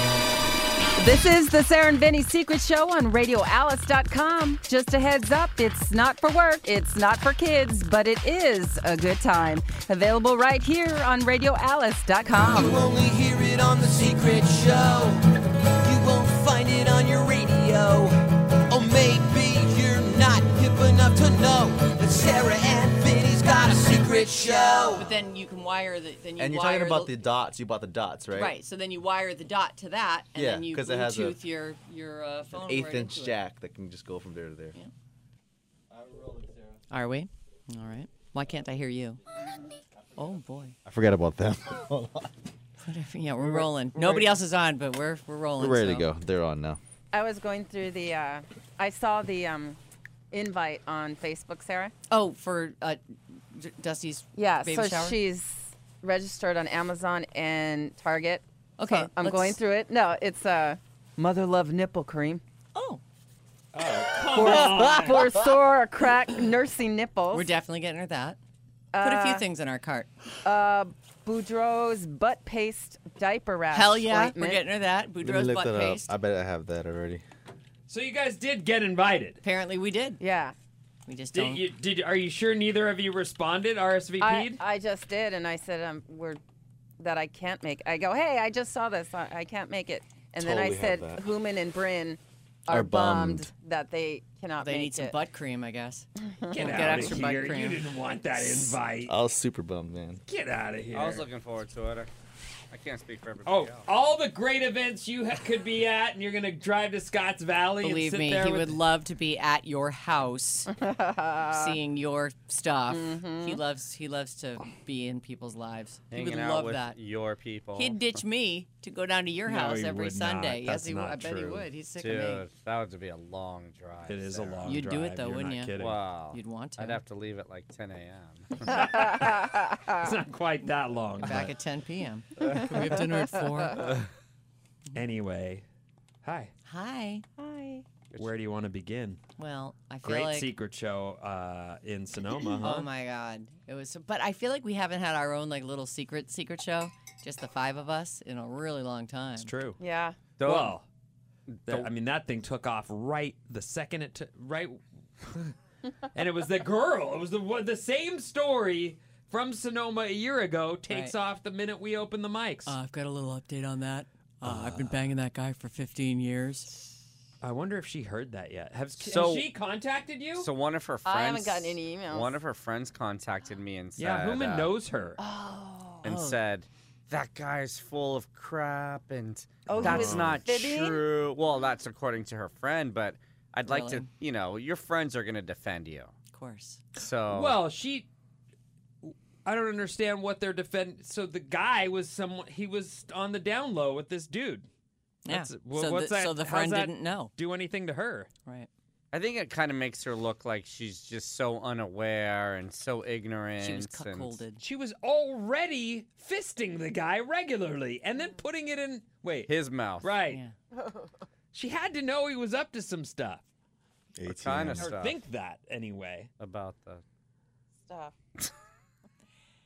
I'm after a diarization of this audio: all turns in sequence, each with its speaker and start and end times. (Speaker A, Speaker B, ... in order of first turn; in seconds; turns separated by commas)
Speaker A: 1.0-12.8, Speaker B: 12.4-15.2, Speaker B: 15.8-18.2, Speaker B: 18.7-25.1, Speaker C: 25.0-27.1, Speaker D: 26.4-28.5, Speaker C: 28.3-33.4, Speaker D: 30.4-31.4, Speaker D: 32.5-34.8, Speaker D: 35.9-36.8, Speaker C: 36.9-39.2, Speaker D: 40.1-42.3, Speaker C: 40.2-40.8, Speaker C: 42.8-46.1, Speaker D: 43.4-44.4, Speaker D: 45.6-46.8, Speaker A: 47.1-49.8, Speaker A: 50.3-51.9, Speaker C: 52.1-55.2, Speaker A: 54.4-62.4, Speaker C: 58.8-59.6, Speaker C: 62.8-63.0, Speaker E: 63.7-65.3, Speaker D: 64.1-65.5, Speaker A: 64.3-67.5, Speaker C: 67.3-68.4, Speaker A: 68.9-69.4, Speaker C: 69.0-70.1, Speaker A: 70.4-74.6, Speaker C: 73.7-76.1, Speaker D: 75.2-77.2, Speaker E: 77.9-79.4, Speaker C: 79.4-80.2, Speaker A: 80.2-80.6, Speaker C: 81.1-81.6, Speaker E: 81.3-84.6, Speaker A: 84.2-86.4, Speaker A: 87.0-95.2, Speaker D: 90.4-91.2, Speaker D: 92.7-93.5, Speaker C: 94.6-97.8, Speaker A: 96.4-97.0, Speaker E: 96.5-99.2, Speaker D: 99.1-100.2, Speaker E: 100.3-101.3, Speaker F: 100.9-102.1, Speaker F: 102.7-103.9, Speaker E: 103.5-108.8, Speaker C: 107.8-110.7, Speaker A: 110.8-111.8, Speaker C: 111.5-117.0, Speaker A: 112.9-113.6, Speaker F: 116.1-118.2, Speaker C: 117.8-122.5, Speaker E: 119.5-121.7, Speaker F: 122.0-124.8, Speaker E: 124.1-126.0, Speaker C: 124.7-125.7, Speaker F: 125.8-128.8, Speaker C: 126.3-127.0, Speaker E: 128.6-131.5, Speaker C: 131.2-133.8, Speaker A: 132.5-133.8, Speaker E: 133.8-134.1, Speaker E: 134.9-135.6, Speaker E: 136.2-136.5, Speaker C: 136.7-137.2, Speaker A: 137.4-137.9, Speaker E: 138.2-139.2, Speaker C: 139.4-140.5, Speaker E: 140.0-142.9, Speaker C: 142.6-149.5, Speaker E: 149.4-149.8, Speaker A: 149.8-150.2, Speaker F: 150.4-150.8, Speaker E: 150.4-150.8, Speaker F: 151.5-151.9, Speaker E: 151.7-155.6, Speaker E: 156.1-162.8, Speaker C: 160.9-161.1, Speaker C: 162.7-166.7, Speaker E: 164.4-165.0, Speaker E: 167.4-170.5, Speaker F: 169.0-169.5, Speaker F: 170.4-174.7, Speaker A: 171.1-172.3, Speaker E: 174.0-175.2, Speaker A: 175.2-176.0, Speaker F: 176.0-186.1, Speaker C: 176.0-176.4, Speaker A: 179.7-181.2, Speaker E: 179.8-180.4, Speaker C: 183.7-184.1, Speaker C: 186.3-186.8, Speaker F: 186.9-187.6, Speaker E: 187.3-188.1, Speaker E: 189.0-194.7, Speaker C: 195.3-197.3, Speaker E: 195.3-198.3, Speaker F: 199.1-204.4, Speaker C: 203.6-204.6, Speaker E: 204.6-210.4, Speaker F: 209.5-210.1, Speaker E: 211.5-213.4, Speaker D: 214.2-214.9, Speaker F: 214.3-215.2, Speaker E: 214.8-216.3, Speaker F: 216.4-217.0, Speaker A: 217.9-218.1